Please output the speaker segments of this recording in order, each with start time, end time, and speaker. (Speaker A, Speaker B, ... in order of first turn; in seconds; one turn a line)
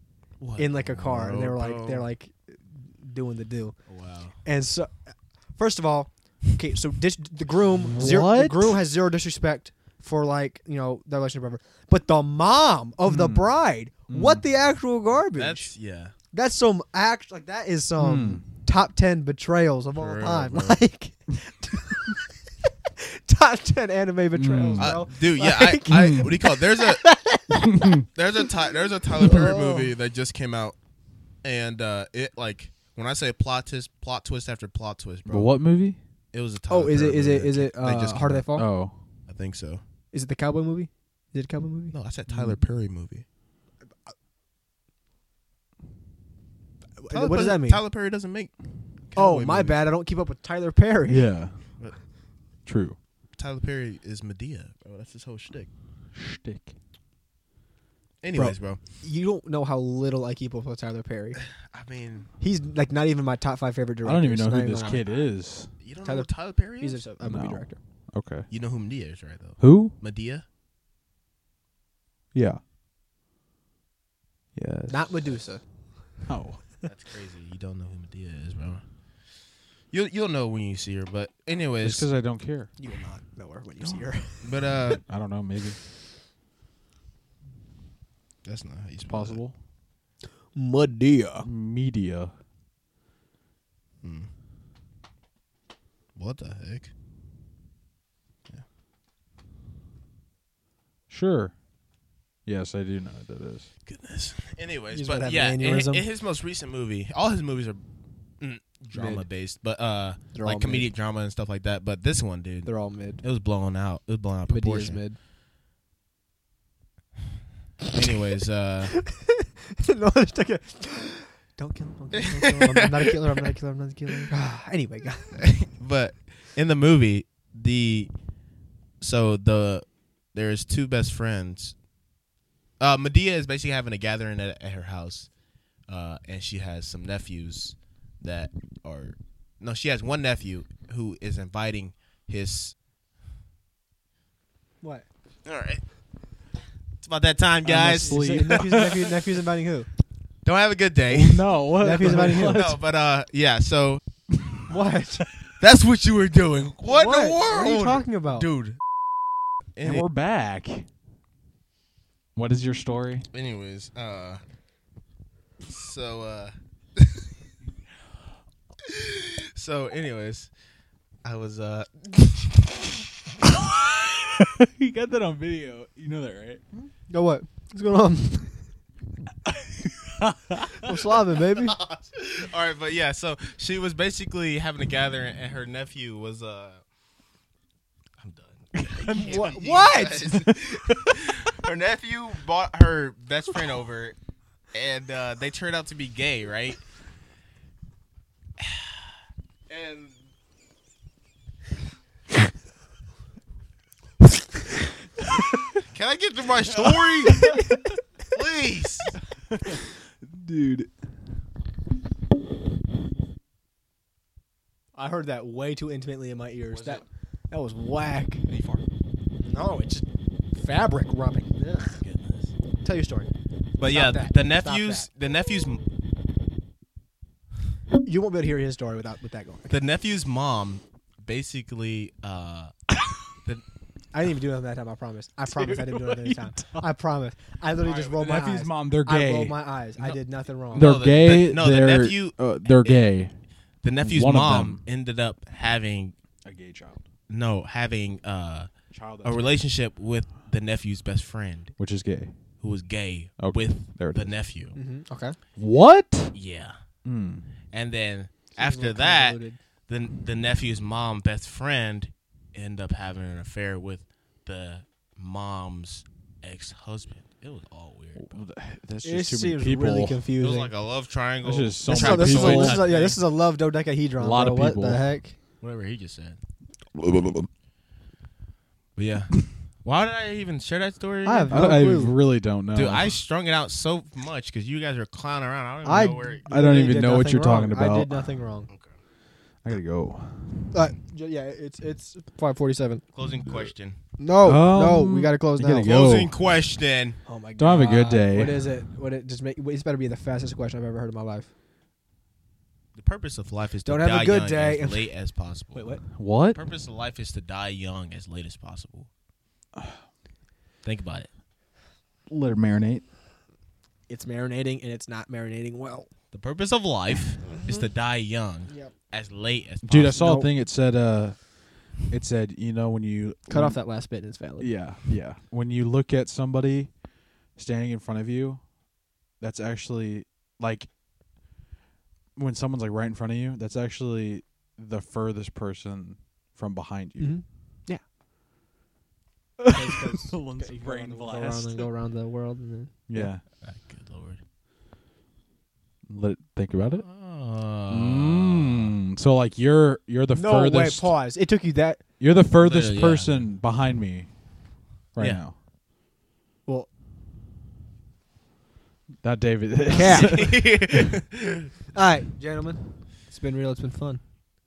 Speaker A: 0.4-2.0
Speaker B: 0.6-3.8
Speaker A: 3.9-4.4
Speaker B: 4.4-15.7
Speaker C: 7.8-8.8
Speaker C: 13.0-13.6
Speaker C: 14.1-14.4
Speaker A: 15.3-16.1
Speaker B: 16.3-22.2
Speaker C: 18.0-18.4
Speaker A: 19.9-20.8
Speaker B: 23.0-27.9
Speaker C: 24.3-25.1
Speaker A: 24.8-27.1
Speaker C: 25.9-26.3
Speaker A: 28.1-30.8
Speaker B: 29.2-29.9
Speaker A: 31.4-35.6
Speaker C: 35.2-36.0
Speaker A: 36.3-38.5
Speaker B: 36.7-38.7
Speaker C: 38.5-39.0
Speaker A: 39.3-39.8
Speaker B: 40.1-41.9
Speaker A: 41.9-43.2
Speaker C: 42.3-42.6
Speaker B: 47.0-47.8
Speaker A: 47.1-48.5
Speaker A: 49.1-49.8
Speaker B: 49.1-51.3
Speaker C: 51.1-51.7
Speaker C: 52.6-53.0
Speaker A: 53.3-55.7
Speaker C: 56.1-56.7
Speaker A: 58.2-58.8
Speaker B: 58.3-61.4
Speaker A: 61.5-62.3
Speaker B: 62.4-65.1
Speaker C: 64.0-65.7
Speaker A: 64.8-65.2
Speaker A: 65.8-67.0
Speaker B: 66.0-67.8
Speaker C: 67.2-68.5
Speaker A: 68.5-70.4
Speaker C: 69.6-69.9
Speaker C: 72.3-72.6
Speaker C: 74.5-75.4
Speaker B: 74.9-75.7
Speaker C: 76.2-76.6
Speaker A: 76.8-79.3
Speaker A: 79.9-82.1
Speaker C: 81.8-82.7
Speaker B: 82.8-84.7
Speaker C: 83.8-84.1
Speaker A: 84.4-85.1
Speaker C: 85.1-85.8
Speaker A: 88.4-89.4
Speaker C: 89.0-89.5
Speaker B: 90.5-91.5
Speaker C: 91.4-92.3
Speaker A: 94.0-94.3
Speaker A: 96.1-96.9
Speaker C: 101.1-101.6
Speaker C: 102.4-103.7
Speaker A: 103.8-107.8
Speaker B: 104.9-106.0
Speaker A: 108.4-115.0
Speaker B: 108.9-109.2
Speaker B: 110.3-110.9
Speaker B: 112.6-113.2
Speaker B: 114.5-115.2
Speaker A: 117.9-119.0
Speaker B: 119.0-125.6
Speaker A: 122.1-123.5
Speaker A: 125.4-128.1
Speaker A: 129.0-131.8
Speaker A: 132.8-135.3
Speaker A: 135.9-142.8
Speaker A: 145.4-145.8
Speaker A: 147.0-148.6
Speaker C: 147.6-149.0
Speaker B: 147.9-149.9
Speaker A: 150.4-154.0
Speaker C: 151.1-152.8
Speaker B: 151.8-152.7
Speaker B: 154.7-155.2
Speaker A: 155.6-158.8
Speaker B: 156.8-158.5
Speaker A: 159.8-160.0
Speaker C: 159.8-160.9
Speaker C: 162.3-163.3
Speaker A: 163.3-164.4
Speaker A: 165.6-167.1
Speaker A: 168.9-170.5
Speaker A: 171.2-172.8
Speaker C: 174.4-176.6
Speaker B: 176.7-178.7
Speaker C: 179.7-180.8
Speaker B: 180.8-181.8
Speaker A: 181.7-186.8
Speaker A: 188.2-194.2
Speaker C: 188.8-189.3
Speaker B: 189.2-190.4
Speaker C: 190.5-191.2
Speaker A: 194.7-196.8
Speaker A: 198.6-198.8
Speaker A: 199.7-200.2
Speaker A: 205.8-207.6
Speaker C: 206.7-207.6
Speaker A: 208.3-209.2
Speaker C: 209.5-210.9
Speaker B: 214.9-218.4
Speaker A: 216.7-217.0
Speaker A: 218.4-218.8
Speaker B: 219.4-222.0
Speaker A: 221.9-222.5
Speaker B: 222.8-225.1
Speaker A: 223.8-225.8
Speaker B: 228.0-229.7
Speaker A: 229.7-232.7
Speaker B: 234.1-240.9
Speaker C: 235.5-236.9
Speaker C: 237.8-239.6
Speaker A: 240.7-243.1
Speaker C: 240.7-243.4
Speaker A: 243.8-246.1
Speaker C: 244.0-244.8
Speaker C: 246.4-247.0
Speaker A: 247.3-251.8
Speaker C: 248.9-249.6
Speaker C: 251.8-252.4
Speaker A: 252.6-254.7
Speaker C: 253.4-254.3
Speaker B: 254.7-255.3
Speaker C: 255.6-256.4
Speaker A: 256.3-256.8
Speaker C: 257.0-257.5
Speaker A: 257.7-268.3
Speaker B: 258.5-259.6
Speaker C: 268.1-270.2
Speaker B: 269.0-270.7
Speaker A: 270.4-273.2
Speaker C: 271.4-272.8
Speaker B: 271.9-275.4
Speaker C: 274.2-275.0
Speaker A: 275.6-276.4
Speaker C: 276.9-277.5
Speaker A: 278.9-281.7
Speaker B: 281.2-282.1
Speaker C: 281.5-283.2
Speaker A: 282.7-286.4
Speaker B: 285.8-288.7
Speaker C: 286.4-288.2
Speaker C: 289.6-290.7
Speaker B: 290.7-293.0
Speaker A: 293.1-294.0
Speaker B: 294.2-295.9
Speaker C: 294.4-296.3
Speaker A: 295.8-297.2
Speaker B: 297.2-301.5
Speaker C: 297.6-298.7
Speaker A: 302.9-309.1
Speaker B: 303.9-305.1
Speaker B: 305.7-306.0
Speaker C: 306.1-306.6
Speaker A: 310.8-311.3
Speaker C: 312.3-313.0
Speaker B: 314.1-316.1
Speaker A: 316.3-320.2
Speaker B: 317.5-317.8
Speaker B: 318.7-318.9
Speaker C: 319.8-323.8
Speaker B: 320.1-320.5
Speaker B: 323.5-324.7
Speaker C: 324.6-328.7
Speaker C: 329.4-330.9
Speaker C: 332.4-337.4
Speaker B: 337.2-338.0
Speaker C: 339.6-341.9
Speaker B: 339.7-343.3
Speaker C: 343.1-343.4
Speaker A: 343.5-344.4
Speaker C: 346.1-347.1
Speaker A: 347.0-348.9
Speaker C: 347.9-351.1
Speaker B: 350.3-352.0
Speaker C: 352.2-354.4
Speaker A: 352.6-353.5
Speaker C: 355.1-355.6
Speaker A: 355.2-355.4
Speaker C: 359.2-360.8
Speaker B: 359.9-360.7
Speaker A: 359.9-361.6
Speaker B: 361.9-364.2